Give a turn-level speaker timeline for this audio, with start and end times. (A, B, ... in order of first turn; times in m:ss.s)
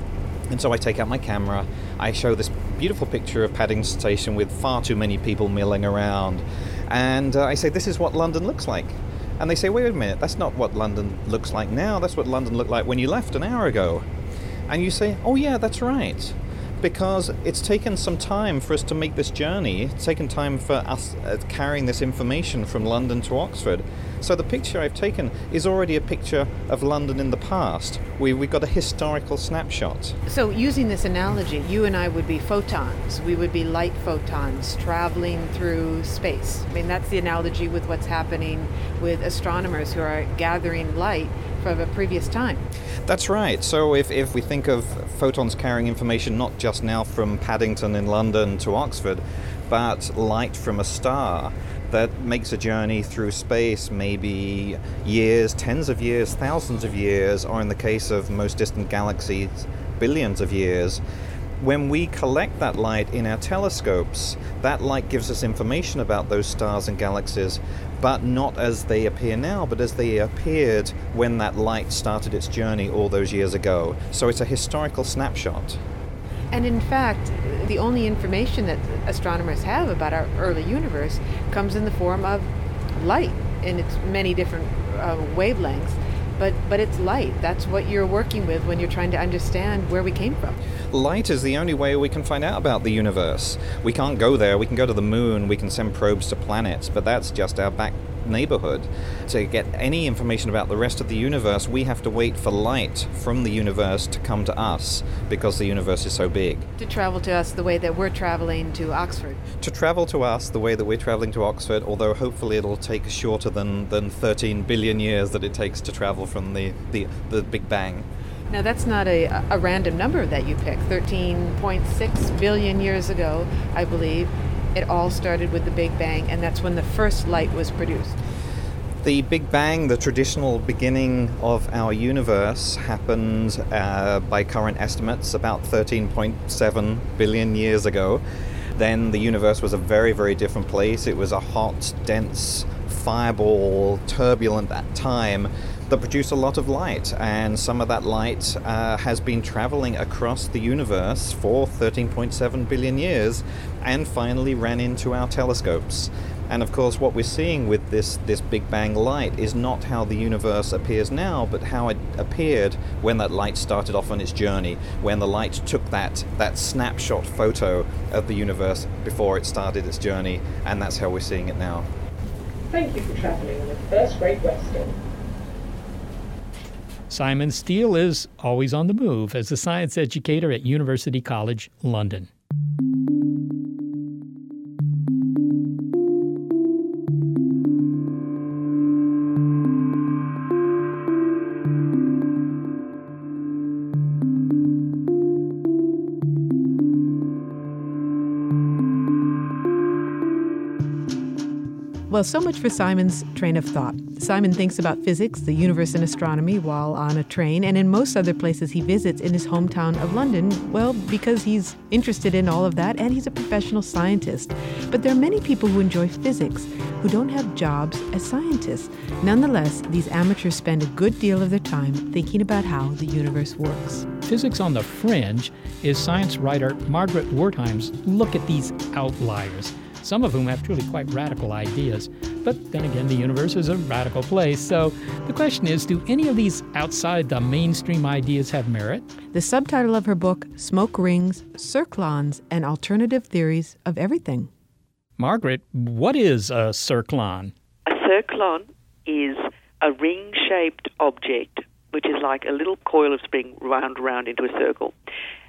0:00.5-0:14.1 A
0:14.7-0:30.2 A
0:30.3-0:42.7 B
0:43.1-1:01.0 A
1:01.6-1:15.8 A
1:16.5-1:30.6 B
1:30.9-1:46.7 A
1:46.8-1:49.4 B
1:49.6-1:58.1 A
1:58.5-2:08.2 B
2:09.0-2:18.2 A
2:18.8-2:51.9 A
2:52.7-2:55.0 C
2:57.1-3:02.3 D
3:22.1-3:44.1 B
3:44.3-3:59.1 D
3:59.3-4:04.5 B
4:05.2-4:07.5 D
4:07.9-4:14.9 E